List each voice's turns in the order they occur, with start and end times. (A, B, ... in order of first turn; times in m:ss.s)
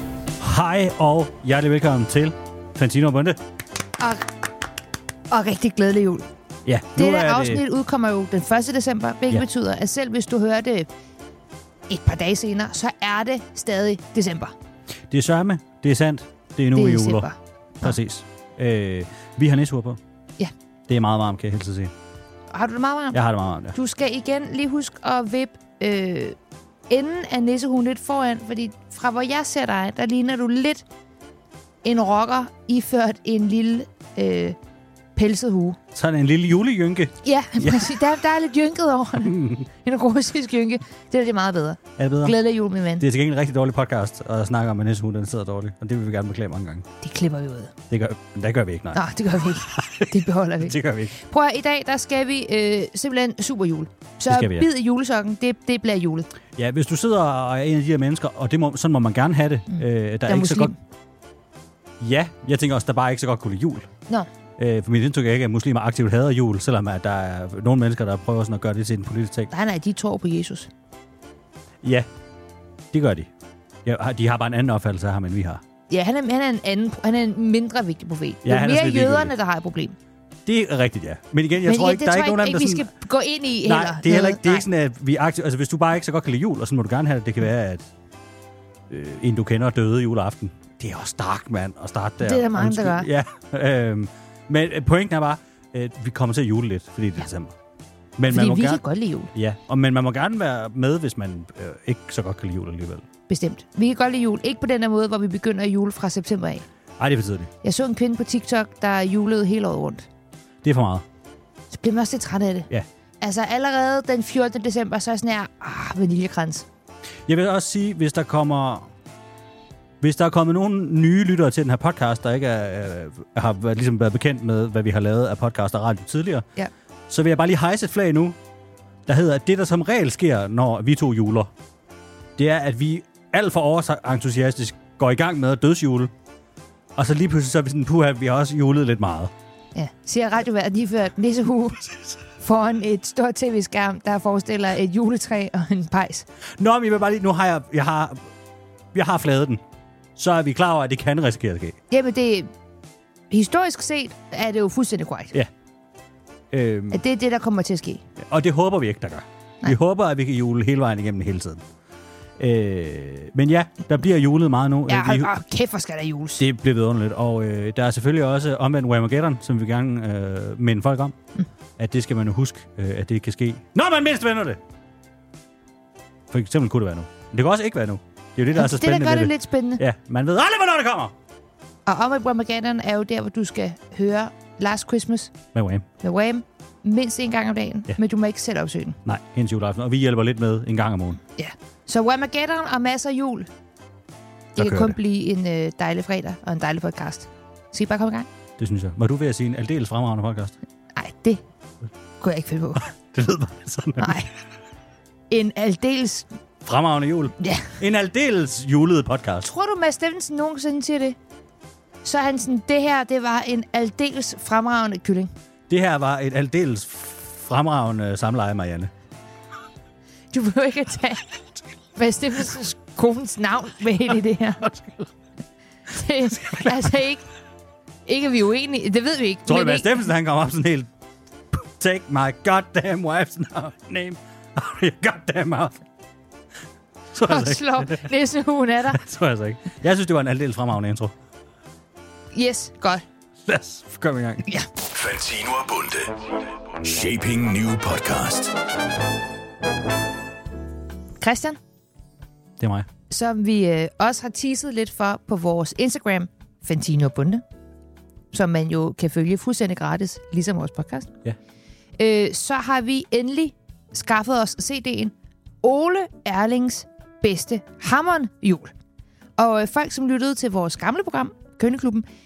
0:00.4-0:03.4 A
0:04.0-0:04.3 B
0:05.3-0:06.3 B
0:06.6-0:07.6 A
0:07.0-0:10.9 B
0:11.9-0:14.5 B
0:15.1-0:17.3 A
0:16.7-0:18.0 B
0:17.8-0:20.0 A
0:20.9-0:21.9 A
0:22.5-0:23.2 B
0:23.1-0:23.8 A
0:23.7-0:26.4 B
0:26.9-0:30.8 B
0:31.8-0:34.6 B
0:35.1-0:35.8 B
0:35.9-0:38.0 A
0:37.2-0:43.0 B
0:39.2-0:39.6 A
0:42.0-0:42.4 A
0:43.0-0:46.8 A
0:47.0-0:47.7 B
0:47.9-0:49.0 A
0:48.9-0:56.3 B
0:49.7-0:51.1 A
0:54.3-0:54.6 A
0:56.6-1:00.7 A
0:59.7-1:00.8 B
1:02.0-1:03.9 A
1:04.6-1:09.5 A
1:09.5-1:10.7 B
1:11.8-1:12.1 A
1:12.9-1:13.3 A
1:13.8-1:15.6 A
1:15.9-1:20.0 B
1:18.4-1:19.3 A
1:20.4-1:22.9 A
1:21.6-1:24.6 B
1:23.6-1:27.8 A
1:28.9-1:37.5 A
1:32.2-1:33.1 B
1:38.2-1:38.8 A
1:38.3-1:39.3 B
1:39.3-1:43.0 A
1:43.3-1:46.6 B
1:47.0-1:47.5 A
1:47.6-1:50.0 B
1:50.6-1:51.0 A
1:51.7-1:52.7 B
1:53.2-1:56.6 B
1:57.3-1:58.9 A
2:00.0-2:06.4 A
2:07.1-2:08.4 A
2:09.0-2:11.5 A
2:12.4-2:16.1 A
2:17.0-2:19.3 A
2:19.7-2:21.8 B
2:22.4-2:26.3 B
2:26.6-2:28.2 A
2:28.9-2:29.6 A
2:30.2-2:31.8 A
2:31.9-2:32.5 B
2:33.3-2:35.3 B
2:36.5-2:37.0 A
2:36.9-2:38.0 B
2:38.2-2:41.6 A
2:42.4-2:45.3 A
2:44.9-2:46.4 B
2:46.4-2:51.2 A
2:51.8-2:54.6 A
2:56.3-3:01.1 A
2:58.5-2:59.8 B
3:01.8-3:05.3 B
3:05.5-3:05.8 A
3:06.0-3:09.0 B
3:09.0-3:11.2 A
3:11.4-3:13.5 B
3:14.6-3:15.0 A
3:14.6-3:18.3 B
3:18.6-3:20.6 A
3:20.9-3:21.4 B
3:22.2-3:22.9 B
3:22.8-3:24.2 A
3:24.0-3:24.3 B
3:25.3-3:26.3 B
3:26.6-3:29.5 A
3:27.4-3:27.8 B
3:29.4-3:31.2 B
3:32.0-3:35.3 B
3:35.7-3:38.9 A
3:40.3-3:41.2 B
3:42.0-3:44.6 B
3:44.6-3:45.1 A
3:45.9-3:47.2 B
3:46.3-3:46.9 A
3:48.0-3:50.0 B
3:49.4-3:50.9 A
3:51.5-3:55.8 A
3:57.1-3:58.1 A
3:57.2-3:59.0 B
3:58.9-4:01.1 A
4:02.3-4:03.0 B
4:03.4-4:04.4 A
4:04.9-4:08.5 C
4:11.2-4:11.6 B
4:12.6-4:12.9 A
4:13.1-4:17.4 B
4:18.3-4:21.1 B
4:22.0-4:28.7 B
4:29.4-4:32.0 B